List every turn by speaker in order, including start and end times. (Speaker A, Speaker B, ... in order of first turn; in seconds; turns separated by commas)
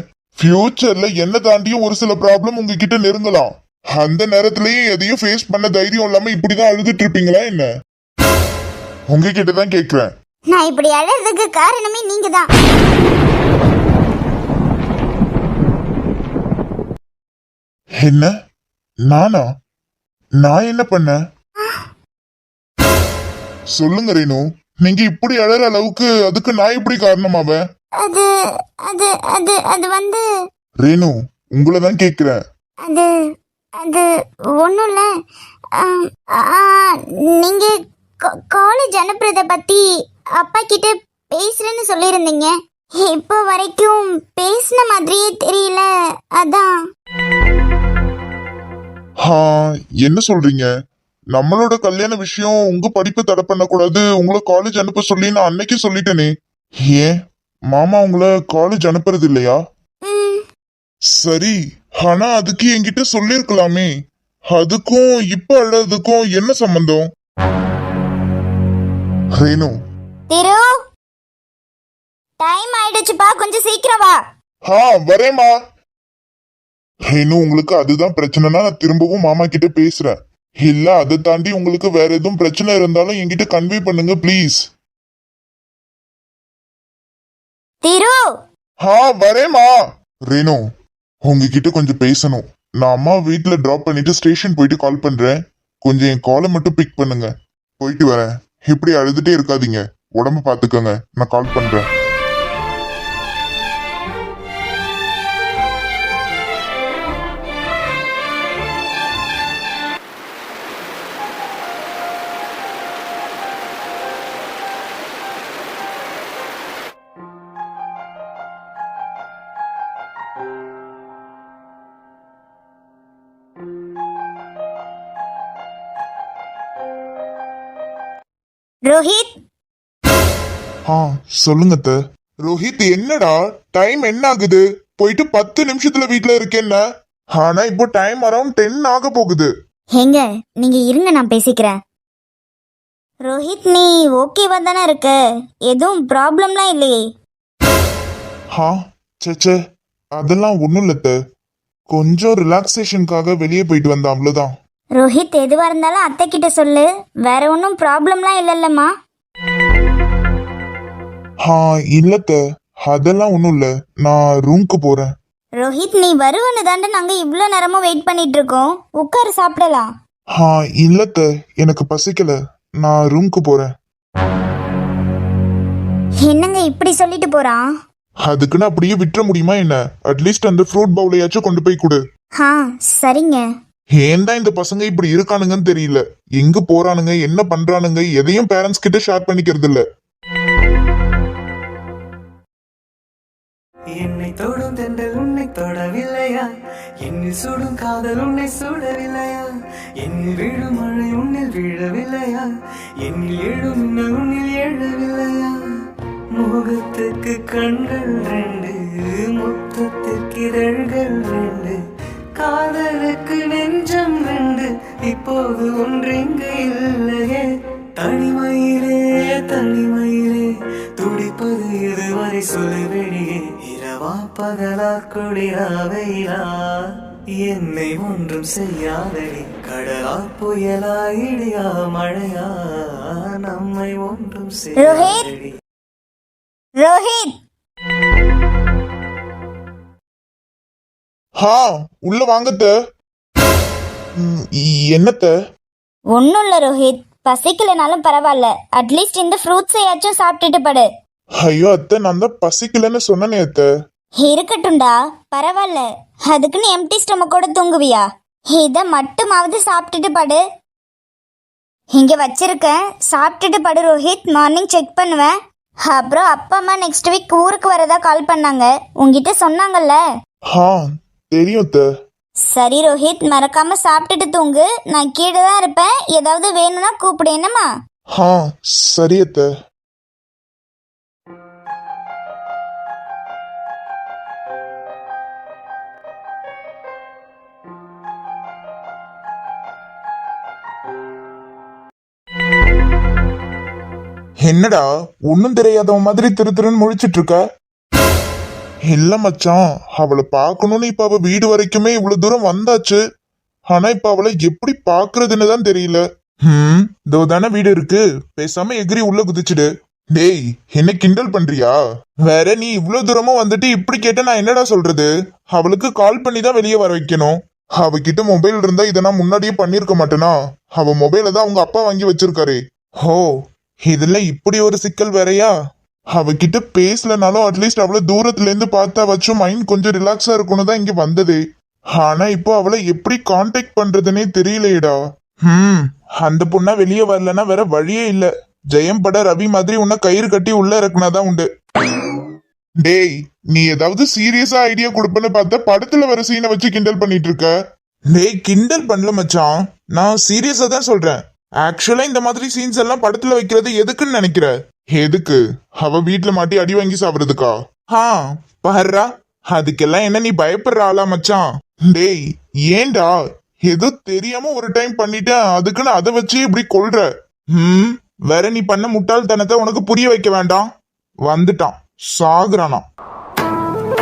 Speaker A: 0.4-7.7, Speaker A: 9.1-10.1, Speaker B: 10.5-12.5, Speaker A: 18.0-18.3, Speaker A: 19.1-19.4, Speaker A: 20.4-21.1, Speaker A: 23.8-27.6, Speaker B: 28.0-28.3, Speaker B: 28.9-30.2, Speaker A: 30.8-32.4, Speaker B: 33.8-34.1, Speaker B: 34.6-35.0, Speaker B: 35.8-37.7, Speaker B: 38.3-39.8, Speaker B: 40.4-45.9, Speaker B: 46.4-46.7, Speaker A: 49.2-50.7, Speaker A: 51.3-56.3, Speaker A: 56.8-57.1, Speaker A: 57.7-59.6, Speaker B: 60.0-60.4, Speaker A: 61.2-63.9, Speaker A: 64.5-67.0, Speaker A: 69.4-69.7, Speaker B: 70.3-70.7, Speaker B: 72.4-74.2, Speaker A: 74.7-75.5, Speaker A: 77.1-80.1, Speaker A: 80.7-84.6, Speaker B: 87.8-88.2, Speaker A: 88.8-89.7, Speaker A: 90.3-90.6, Speaker A: 91.2-97.3, Speaker A: 97.8-101.8, Speaker B: 128.9-129.3, Speaker A: 130.9-136.8, Speaker A: 137.4-139.5, Speaker B: 140.0-141.8, Speaker B: 143.2-145.2, Speaker B: 145.7-147.0, Speaker A: 148.6-149.5, Speaker A: 150.2-151.1, Speaker A: 151.9-154.5, Speaker B: 155.0-158.9, Speaker A: 161.5-165.1, Speaker B: 165.6-169.9, Speaker A: 170.4-173.7, Speaker B: 176.2-177.6, Speaker A: 178.3-182.0, Speaker B: 182.4-183.4, Speaker A: 184.0-189.8, Speaker C: 194.0-196.5, Speaker C: 197.0-202.5, Speaker C: 203.0-205.6, Speaker C: 206.4-211.8, Speaker C: 212.4-217.4, Speaker C: 218.0-226.9, Speaker C: 227.4-232.5, Speaker C: 233.1-235.5, Speaker B: 234.8-235.2, Speaker B: 236.8-237.3, Speaker A: 241.4-242.7, Speaker A: 244.2-245.3, Speaker B: 246.2-250.9, Speaker A: 251.4-253.7, Speaker B: 254.2-260.4, Speaker B: 261.9-265.3, Speaker B: 265.9-270.0, Speaker A: 270.5-270.8, Speaker A: 271.3-271.8, Speaker B: 272.5-277.7, Speaker A: 278.2-279.5, Speaker A: 294.5-297.4, Speaker A: 298.9-303.0, Speaker A: 303.7-311.8, Speaker A: 312.3-323.3, Speaker A: 323.9-325.5, Speaker A: 326.1-331.4, Speaker A: 332.0-341.5, Speaker A: 342.8-347.5, Speaker A: 348.1-362.2, Speaker A: 362.7-363.1, Speaker A: 363.7-370.7, Speaker A: 371.3-372.8